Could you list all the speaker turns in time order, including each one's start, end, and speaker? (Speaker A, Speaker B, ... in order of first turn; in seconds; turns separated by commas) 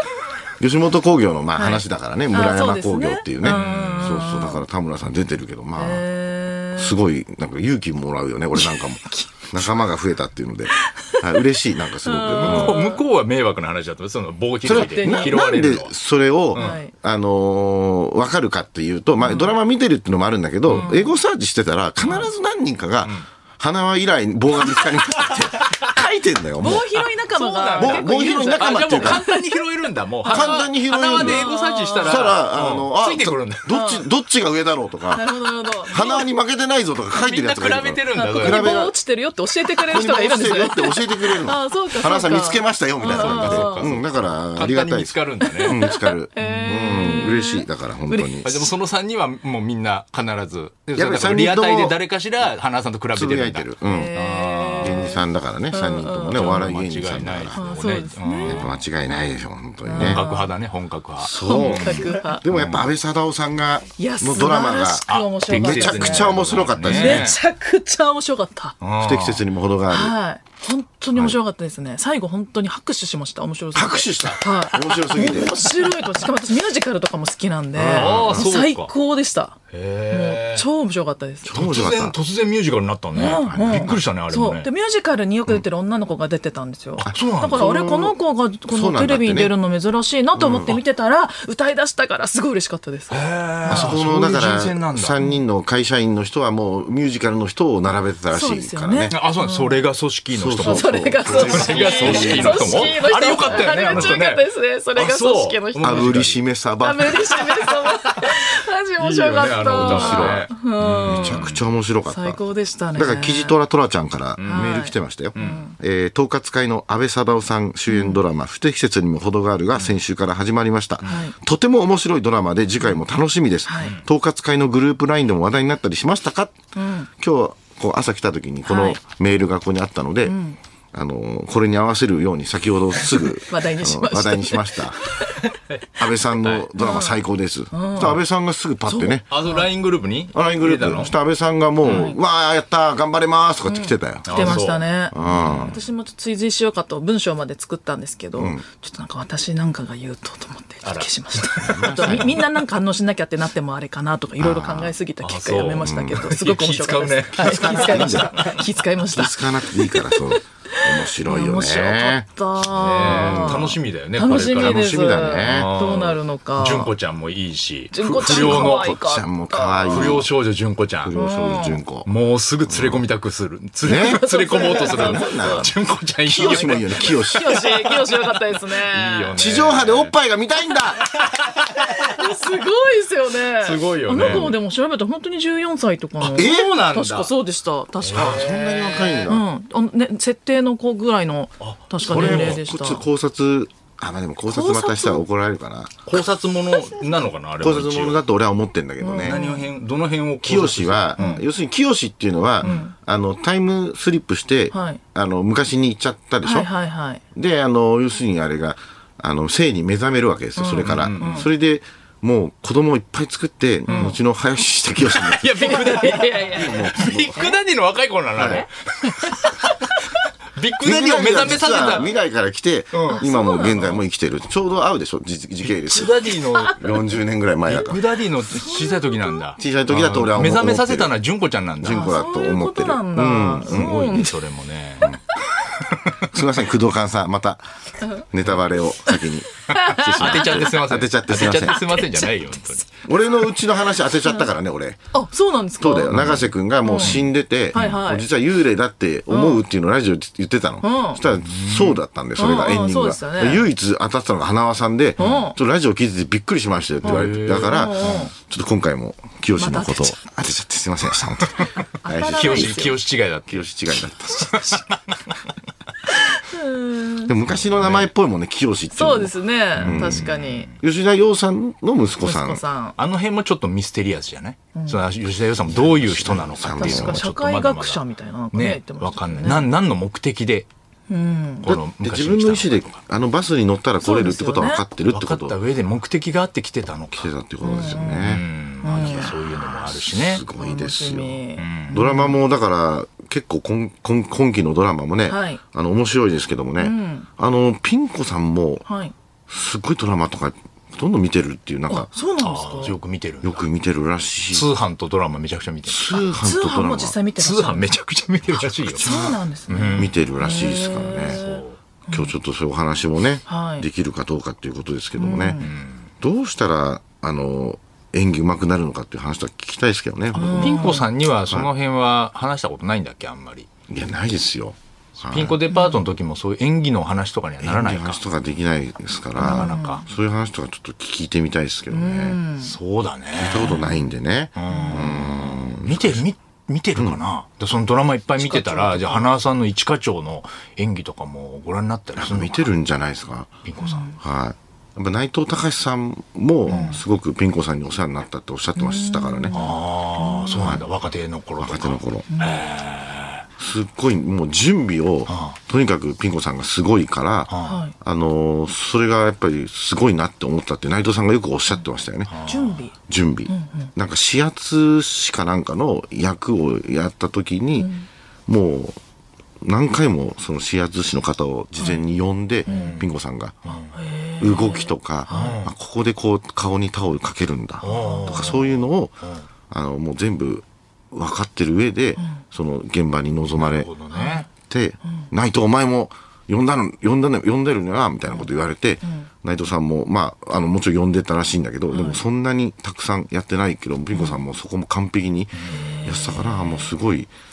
Speaker A: 0.6-6.0, Speaker B: 1.5-4.6, Speaker C: 3.4-4.2, Speaker B: 5.8-7.0, Speaker A: 6.7-12.8, Speaker B: 8.6-9.8, Speaker B: 10.9-11.5, Speaker B: 12.0-13.0, Speaker C: 12.3-15.9, Speaker A: 14.6-27.0, Speaker B: 14.6-15.5, Speaker B: 16.5-16.9, Speaker C: 20.7-20.9, Speaker B: 20.7-21.1, Speaker C: 22.0-22.3, Speaker C: 25.1-25.7, Speaker B: 26.6-29.6, Speaker C: 27.3-33.7, Speaker A: 27.8-29.2, Speaker B: 30.2-32.3, Speaker A: 30.3-31.4, Speaker A: 32.0-39.0, Speaker B: 33.7-34.1, Speaker B: 35.1-36.3, Speaker C: 37.1-38.8, Speaker B: 38.1-43.9, Speaker A: 39.7-48.6, Speaker C: 43.1-45.8, Speaker B: 45.4-48.5, Speaker C: 46.4-47.4, Speaker C: 48.4-55.0, Speaker A: 50.9-52.0, Speaker A: 53.1-54.1, Speaker B: 53.8-56.5, Speaker A: 54.8-57.6, Speaker C: 56.3-58.7, Speaker B: 57.5-58.7, Speaker A: 58.4-60.2, Speaker B: 59.8-60.5, Speaker C: 60.0-62.9, Speaker A: 61.2-67.3, Speaker B: 61.3-62.4, Speaker B: 64.0-68.8, Speaker C: 65.1-67.4, Speaker C: 68.8-69.4, Speaker A: 69.0-70.1, Speaker B: 69.9-79.6, Speaker A: 73.7-75.6, Speaker A: 77.7-78.5, Speaker C: 77.9-78.9, Speaker C: 79.7-80.7, Speaker B: 80.1-81.6, Speaker A: 81.4-82.2, Speaker C: 81.5-84.7, Speaker B: 83.1-94.0, Speaker A: 83.2-84.0, Speaker A: 87.0-89.5, Speaker C: 87.0-87.6, Speaker A: 90.3-90.8, Speaker C: 93.1-95.2, Speaker A: 93.7-99.1, Speaker B: 95.2-95.4, Speaker B: 98.3-99.8, Speaker C: 99.1-106.4, Speaker A: 100.3-104.2, Speaker B: 100.6-106.1, Speaker A: 105.8-107.4, Speaker B: 106.8-111.5, Speaker C: 109.0-111.6, Speaker A: 109.7-110.5, Speaker A: 111.0-112.4, Speaker B: 112.0-113.6, Speaker A: 112.9-126.6, Speaker C: 114.4-114.7, Speaker B: 114.4-115.8, Speaker C: 115.3-115.6, Speaker B: 117.9-118.2, Speaker B: 121.0-121.3, Speaker B: 123.7-124.0, Speaker B: 126.7-127.1, Speaker A: 127.2-130.4, Speaker B: 128.7-129.0, Speaker B: 130.2-130.6, Speaker A: 130.9-135.0, Speaker B: 133.4-135.4, Speaker A: 135.9-139.3, Speaker C: 136.4-136.6, Speaker B: 136.8-138.2, Speaker B: 138.8-139.6, Speaker C: 139.3-141.1, Speaker A: 140.3-145.8, Speaker C: 141.8-142.1, Speaker B: 141.8-142.2, Speaker B: 143.7-166.9, Speaker C: 144.2-145.8, Speaker A: 148.4-148.6, Speaker C: 150.8-152.4, Speaker A: 151.6-152.4, Speaker A: 154.4-154.9, Speaker C: 155.2-158.6, Speaker A: 155.8-156.3, Speaker A: 157.3-158.5, Speaker A: 159.1-162.3, Speaker C: 162.7-169.0, Speaker A: 163.0-163.7, Speaker A: 164.3-165.7, Speaker B: 167.9-170.2, Speaker A: 168.0-170.3, Speaker C: 169.9-171.2, Speaker A: 171.0-172.1, Speaker B: 171.1-171.8, Speaker C: 172.0-177.9, Speaker A: 172.7-173.0, Speaker A: 173.8-175.7, Speaker B: 173.9-175.7, Speaker A: 176.2-177.7, Speaker B: 176.4-179.4, Speaker C: 178.7-180.1, Speaker A: 179.3-181.1, Speaker B: 181.8-188.4, Speaker C: 183.5-184.6, Speaker A: 184.2-184.6, Speaker C: 186.2-187.3, Speaker A: 186.3-186.7, Speaker C: 188.0-189.3, Speaker A: 188.1-189.4, Speaker B: 189.2-193.0, Speaker C: 191.6-192.6, Speaker A: 192.0-196.0, Speaker B: 194.5-195.2, Speaker C: 196.1-198.2, Speaker A: 197.6-199.4, Speaker B: 199.0-199.7, Speaker C: 199.2-201.2, Speaker A: 200.4-206.7, Speaker B: 201.2-201.4, Speaker B: 202.6-202.9, Speaker B: 204.7-205.0, Speaker B: 206.4-207.2, Speaker A: 207.3-217.4, Speaker B: 210.6-211.5, Speaker C: 210.8-211.5, Speaker B: 213.8-214.2, Speaker C: 213.9-214.2, Speaker C: 215.1-219.8, Speaker B: 215.6-217.5, Speaker A: 218.3-218.6, Speaker B: 218.4-219.9, Speaker C: 220.6-222.1, Speaker A: 220.8-228.0, Speaker C: 222.9-223.2, Speaker B: 223.1-224.0, Speaker C: 225.6-226.9, Speaker B: 226.3-226.9, Speaker C: 227.7-232.2, Speaker B: 227.9-229.4, Speaker A: 229.6-231.1, Speaker A: 231.8-234.0, Speaker B: 231.8-234.4, Speaker C: 233.6-236.3, Speaker A: 236.3-237.6, Speaker B: 238.0-238.2, Speaker A: 238.2-241.8, Speaker B: 239.1-243.0, Speaker C: 240.1-242.9, Speaker A: 243.0-245.0, Speaker B: 244.2-244.5, Speaker B: 245.1-246.1, Speaker A: 245.8-264.7, Speaker C: 246.1-248.0, Speaker B: 246.8-247.2, Speaker B: 247.7-248.2, Speaker B: 249.3-249.6, Speaker B: 250.8-251.2, Speaker C: 251.3-252.0, Speaker B: 252.3-253.7, Speaker C: 255.2-255.5, Speaker B: 255.2-255.6, Speaker C: 257.0-258.2, Speaker B: 257.0-258.3, Speaker B: 259.6-260.2, Speaker B: 262.0-262.9, Speaker C: 262.3-263.7, Speaker C: 264.4-265.4, Speaker B: 264.5-264.8, Speaker B: 266.1-267.3, Speaker A: 267.2-270.3, Speaker C: 267.4-268.1, Speaker B: 268.9-270.7, Speaker C: 269.8-270.8, Speaker A: 270.8-272.6, Speaker B: 272.2-272.9, Speaker C: 273.0-280.7, Speaker B: 274.7-275.0, Speaker A: 275.7-277.3, Speaker B: 276.8-279.7, Speaker B: 281.1-281.7, Speaker C: 281.6-283.0, Speaker A: 281.6-285.6, Speaker B: 284.0-284.8, Speaker C: 285.1-290.4, Speaker A: 287.1-298.8, Speaker B: 287.6-289.4, Speaker B: 290.5-292.4, Speaker C: 291.6-292.0, Speaker B: 295.3-295.6, Speaker B: 296.8-297.3, Speaker B: 298.8-299.1, Speaker A: 299.5-302.1, Speaker B: 301.9-302.9, Speaker C: 302.4-303.6, Speaker A: 303.4-304.7, Speaker C: 304.5-306.2, Speaker A: 305.9-307.1, Speaker B: 306.4-307.9, Speaker C: 307.4-309.1, Speaker A: 308.6-309.4, Speaker B: 308.9-312.3, Speaker C: 309.7-310.3, Speaker A: 309.9-311.4, Speaker C: 311.2-311.8, Speaker A: 312.1-315.6, Speaker B: 313.4-313.9, Speaker B: 315.1-315.7, Speaker C: 315.6-316.1, Speaker A: 316.2-320.9, Speaker B: 320.3-321.1, Speaker C: 320.4-323.7, Speaker A: 323.9-325.6, Speaker C: 325.2-328.2, Speaker B: 325.7-326.0, Speaker A: 327.6-332.4, Speaker C: 329.4-330.0, Speaker B: 329.4-330.0, Speaker B: 331.9-332.7, Speaker C: 332.6-333.9, Speaker A: 333.3-336.2, Speaker C: 334.5-342.7, Speaker B: 334.7-335.0, Speaker B: 338.4-339.3, Speaker A: 342.2-343.5, Speaker C: 343.6-344.1, Speaker B: 343.8-344.2, Speaker A: 344.2-349.6, Speaker C: 346.7-347.0, Speaker B: 346.7-347.0, Speaker B: 348.7-350.8, Speaker C: 349.5-353.4, Speaker A: 350.6-350.9, Speaker A: 351.6-352.3, Speaker B: 352.3-352.6, Speaker A: 353.6-362.3, Speaker C: 355.3-355.6, Speaker C: 357.5-357.8, Speaker B: 357.6-357.9, Speaker C: 362.3-362.8, Speaker B: 362.4-362.9, Speaker A: 363.0-367.9, Speaker B: 363.5-363.9, Speaker B: 367.8-368.1, Speaker A: 368.5-369.0, Speaker A: 369.6-373.6, Speaker B: 372.6-373.0, Speaker C: 372.6-373.1, Speaker C: 373.6-374.0, Speaker B: 373.9-375.6, Speaker A: 374.4-379.2, Speaker C: 375.3-375.7, Speaker C: 377.8-379.4, Speaker B: 377.8-378.6, Speaker A: 379.7-383.9, Speaker C: 383.5-384.5, Speaker B: 384.1-384.4, Speaker A: 384.6-397.3, Speaker B: 389.0-389.3, Speaker B: 391.9-392.2, Speaker B: 394.1-394.4, Speaker C: 395.5-396.4, Speaker B: 395.6-396.9